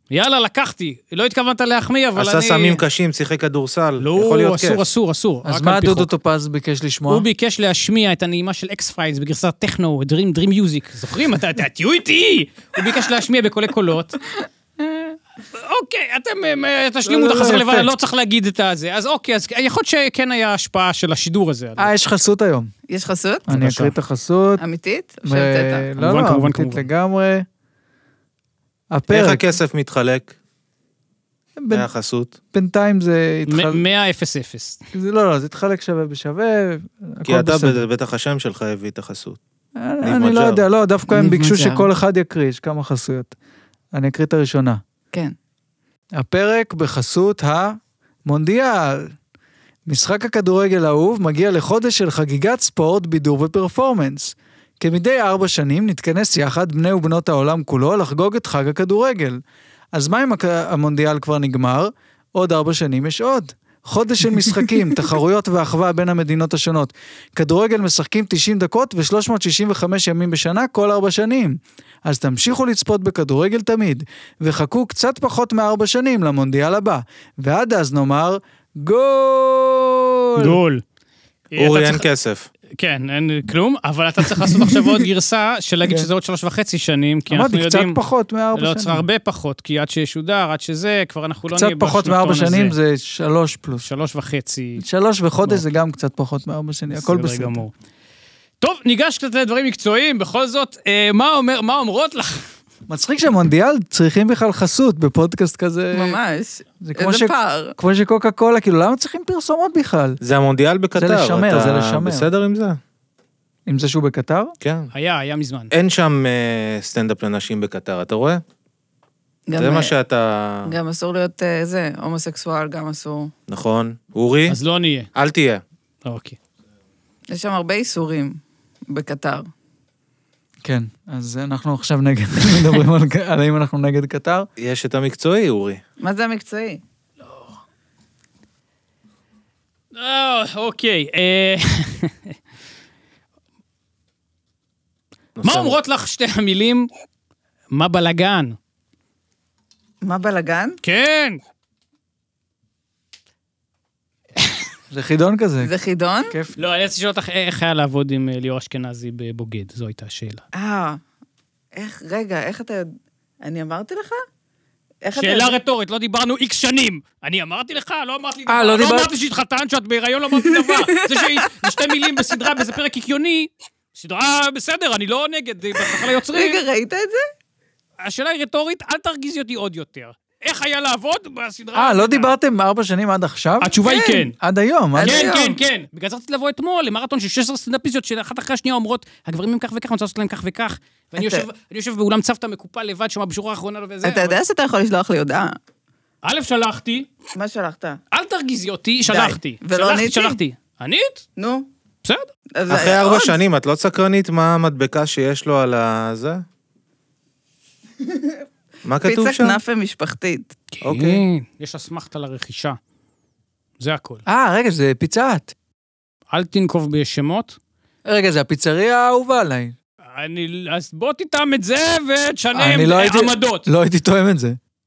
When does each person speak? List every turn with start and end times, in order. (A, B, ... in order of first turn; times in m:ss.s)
0:00.1-0:02.8 A
0:02.2-0:04.8 B
0:04.0-0:06.1 A
0:05.4-0:07.3 C
0:07.1-0:14.2 A
0:15.5-0:21.9 A
0:17.0-0:17.9 C
0:21.8-0:22.7 C
0:22.9-0:23.5 D
0:23.5-0:24.6 C
0:23.5-0:23.9 A
0:24.6-0:25.9 D
0:25.2-0:27.4 C
0:26.0-0:26.9 A
0:28.9-0:29.4 C
0:29.1-0:30.4 B
0:31.6-0:31.9 C
0:31.7-0:32.3 B
0:32.5-0:33.8 C
0:33.5-0:34.8 A
0:34.9-0:37.9 C
0:37.3-0:39.4 B
0:39.8-0:43.3 C
0:40.0-0:40.6 B
0:41.1-0:41.9 D
0:43.9-0:44.8 C
0:46.2-0:49.1 C
0:49.9-0:59.4 C
0:59.9-1:20.6 C
1:20.4-1:20.8 A
1:21.5-1:22.1 A
1:21.6-1:22.5 B
1:22.8-1:28.0 A
1:25.8-1:26.1 C
1:27.3-1:29.0 C
1:28.6-1:32.7 A
1:31.5-1:33.9 C
1:33.8-1:34.8 A
1:34.8-1:37.6 C
1:36.9-1:37.7 A
1:38.6-1:42.5 A
1:42.9-1:46.2 C
1:45.9-1:47.8 D
1:46.8-1:50.2 C
1:50.2-1:52.8 B
1:50.9-1:52.3 C
1:53.6-1:54.6 C
1:54.6-1:54.9 B
1:54.9-1:55.7 A
1:55.7-1:58.4 B
1:59.5-1:59.9 D
1:59.6-2:00.7 B
2:00.6-2:03.3 D
2:03.5-2:04.6 B
2:04.5-2:05.1 A
2:05.1-2:05.6 B
2:06.0-2:06.4 A
2:07.3-2:09.5 D
2:10.6-2:14.5 C
2:14.6-2:15.8 B
2:16.0-2:16.8 D
2:19.9-2:22.3 A
2:25.4-2:25.7 B
2:25.4-2:26.9 A
2:27.7-2:28.6 A
2:30.0-2:30.8 D
2:30.8-2:31.4 A
2:34.9-2:35.7 C
2:35.6-2:36.4 D
2:36.3-2:36.6 C
2:36.6-2:40.4 A
2:40.5-2:41.0 D
2:41.7-2:42.9 D
2:43.4-2:44.2 D
2:45.0-2:45.6 D
2:45.2-2:56.6 A
2:48.5-2:49.1 C
2:50.4-2:52.6 D
2:55.8-2:57.2 D
2:58.0-3:02.3 A
3:01.7-3:03.8 C
3:03.6-3:04.4 A
3:03.8-3:04.3 D
3:04.4-3:05.3 C
3:04.9-3:05.6 D
3:05.0-3:14.4 A
3:11.2-3:11.5 D
3:14.0-3:15.6 D
3:16.2-3:17.1 A
3:17.4-3:18.0 D
3:18.1-3:21.3 A
3:19.1-3:20.4 D
3:21.4-3:21.7 D
3:22.6-3:23.4 D
3:22.7-3:26.4 B
3:28.9-3:29.6 B
3:29.0-3:30.6 D
3:30.7-3:32.8 A
3:30.8-3:31.2 B
3:33.8-3:34.2 A
3:34.3-3:35.5 C
3:36.3-3:37.6 A
3:38.1-3:39.7 C
3:40.1-3:43.7 A
3:42.5-3:44.6 C